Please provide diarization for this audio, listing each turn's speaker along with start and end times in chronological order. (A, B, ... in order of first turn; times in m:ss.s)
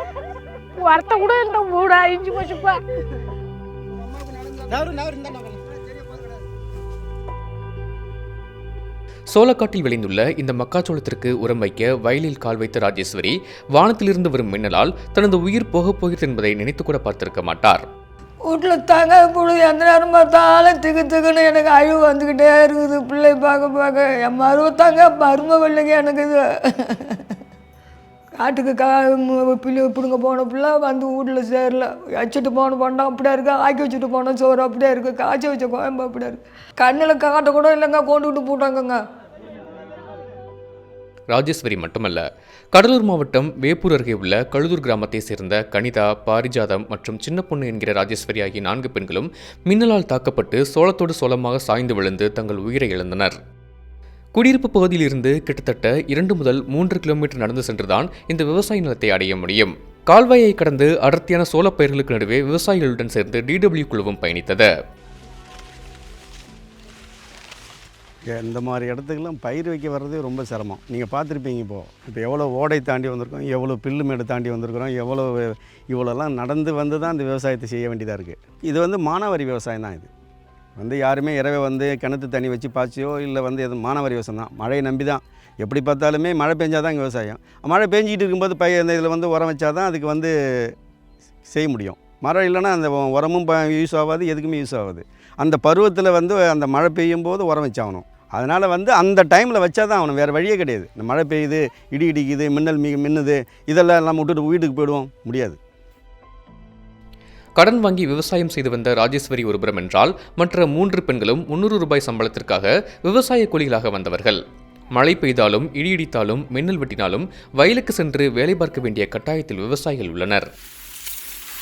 0:00.8-0:02.8 A
0:09.3-0:17.8 B
0:18.5-0:27.2 C
0:28.4-0:39.0 C
0:41.3-0:53.4 B
0:54.4-1:04.7 B
1:08.3-1:20.1 D
1:20.8-1:30.7 D
1:31.5-1:45.6 D
1:47.6-1:54.4 B
1:54.9-2:00.5 B